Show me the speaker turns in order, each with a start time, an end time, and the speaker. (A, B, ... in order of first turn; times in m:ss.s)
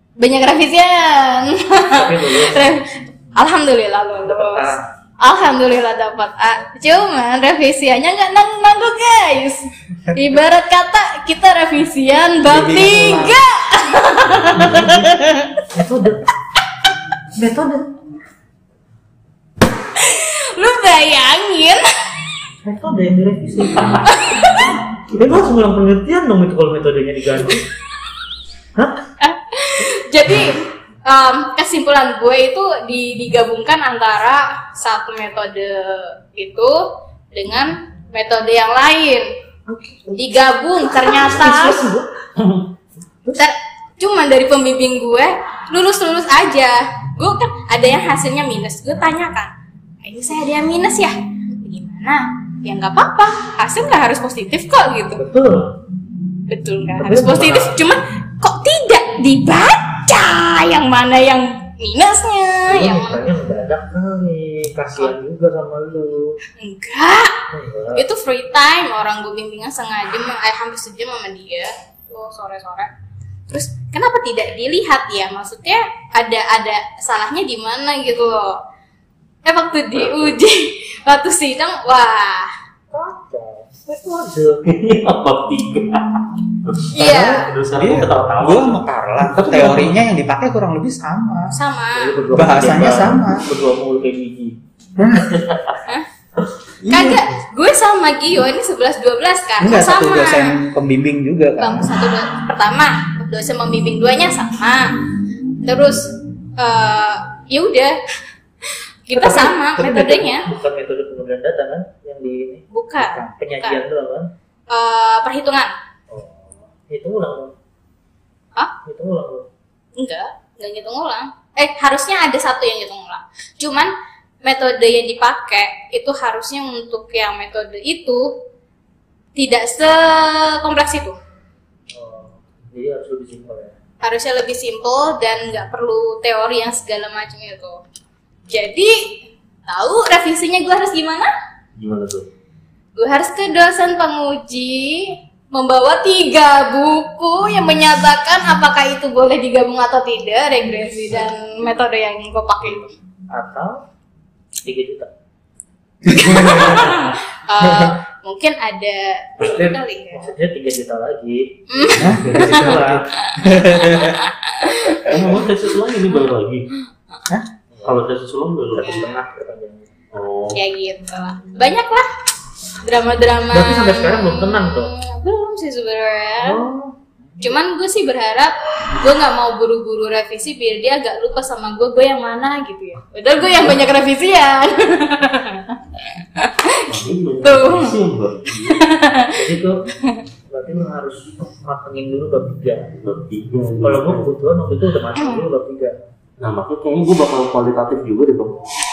0:00.2-0:15.1 A
0:01.9-0:02.8 B
0:04.2-0:04.9 B
0:12.4-0:13.4 C
0:14.2-0:15.0 D
0:15.7-0:16.2 B
0:17.3-0:17.9 B
0:20.0-0:21.8 A
0:22.6-0:24.1 B
0:24.1-0:24.7 A
0:25.1-0:27.6 B
0:28.8-0:29.0 B
0:29.2-0:39.3 A
0:39.7-0:40.2 B
0:40.1-0:41.8 A
0:41.0-0:42.1 B
0:43.4-0:49.5 A
0:50.0-0:55.2 A
0:55.2-0:55.7 B
0:56.5-1:03.3 A
0:57.0-0:57.8 B
1:02.6-1:06.4 B
1:06.6-1:07.4 A
1:07.5-1:08.0 B
1:07.9-1:12.9 A
1:13.5-1:18.6 A
1:19.4-1:22.5 A
1:19.9-1:20.3 B
1:22.9-1:24.9 B
1:24.6-1:30.0 D
1:26.9-1:27.5 A
1:27.7-1:31.5 C
1:31.5-1:32.2 A
1:31.9-1:34.6 B
1:32.3-1:33.4 C
1:35.0-1:35.3 C
1:35.1-1:35.8 D
1:36.8-1:37.3 C
1:36.9-1:40.6 A
1:39.6-1:41.9 C
1:41.6-1:45.0 A
1:45.6-1:48.0 A
1:48.6-1:50.4 A
1:49.1-1:54.3 B
1:52.7-1:53.8 A
1:54.7-1:55.7 A
1:56.1-1:57.5 B
1:58.8-1:59.4 B
2:00.0-2:03.9 A
2:04.4-2:08.3 A
2:09.4-2:11.2 A
2:11.9-2:13.8 B
2:14.0-2:17.8 A
2:18.5-2:21.3 A
2:21.8-2:22.3 D
2:23.0-2:32.9 A
2:33.3-2:33.8 B
2:34.6-2:35.1 B
2:36.0-2:37.0 C
2:36.2-2:40.3 A
2:37.6-2:38.0 C
2:39.4-2:39.7 D
2:39.5-2:41.5 B
2:41.7-2:45.2 A
2:41.9-2:42.7 D
2:42.0-2:44.2 C
2:42.1-2:43.1 B
2:45.0-2:46.7 D
2:46.1-2:46.3 A
2:47.7-2:48.1 B
2:47.8-2:49.1 D
2:48.7-2:49.9 B
2:48.8-2:49.1 A
2:50.1-2:50.6 D
2:50.5-2:52.1 A
2:52.8-2:56.6 A
2:53.5-2:54.9 B
2:56.4-2:56.9 B
2:57.4-3:06.8 A
3:03.5-3:03.8 B
3:06.8-3:08.9 D
3:07.4-3:08.0 A
3:08.7-3:09.4 A
3:09.3-3:09.8 B
3:10.5-3:12.9 B
3:13.0-3:14.3 D
3:13.8-3:15.9 B
3:15.2-3:15.4 A
3:16.4-3:18.6 D